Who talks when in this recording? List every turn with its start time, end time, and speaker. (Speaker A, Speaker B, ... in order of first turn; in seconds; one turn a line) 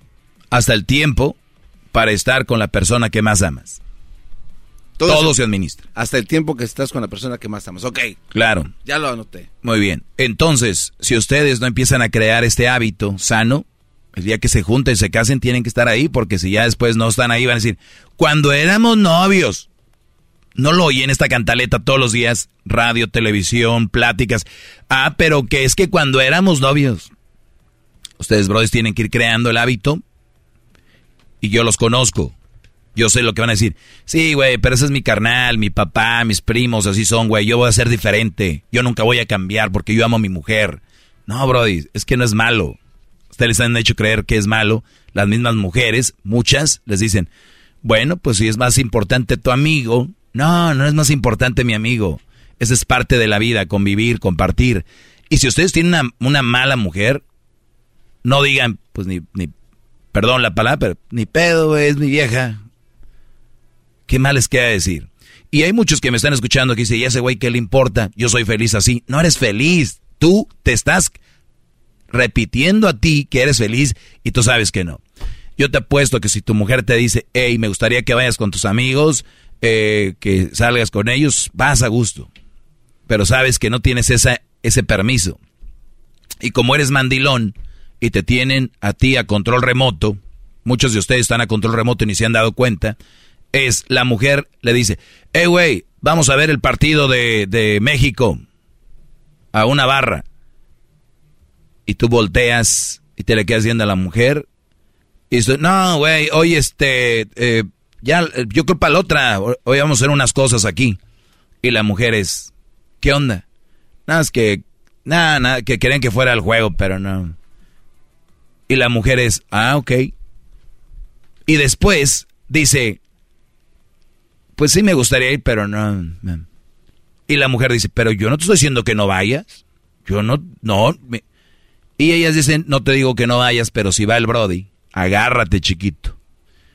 Speaker A: 0.5-1.4
Speaker A: 1.9-3.8
Speaker B: 5.0-5.3
Speaker A: 5.0-5.8
Speaker B: 6.0-8.2
Speaker A: 8.3-8.7
Speaker B: 8.8-9.5
Speaker A: 9.6-19.7
Speaker A: 20.6-27.1
Speaker A: 28.2-30.0
Speaker A: 31.4-32.4
Speaker A: 33.0-42.8
Speaker A: 43.3-47.3
Speaker A: 47.8-57.2
Speaker A: 58.2-59.5
Speaker A: 60.1-62.6
Speaker A: 64.1-71.2
Speaker A: 72.1-75.0
Speaker A: 75.6-82.3
Speaker A: 83.1-85.4
Speaker A: 86.4-93.0
Speaker A: 93.5-98.4
Speaker A: 99.5-100.2
Speaker A: 101.9-104.5
Speaker A: 105.3-111.0
Speaker A: 111.6-113.4
Speaker A: 114.1-117.4
Speaker A: 118.7-120.1
Speaker A: 121.5-123.0
Speaker A: 124.6-126.5
Speaker A: 127.3-131.2
Speaker A: 132.0-136.2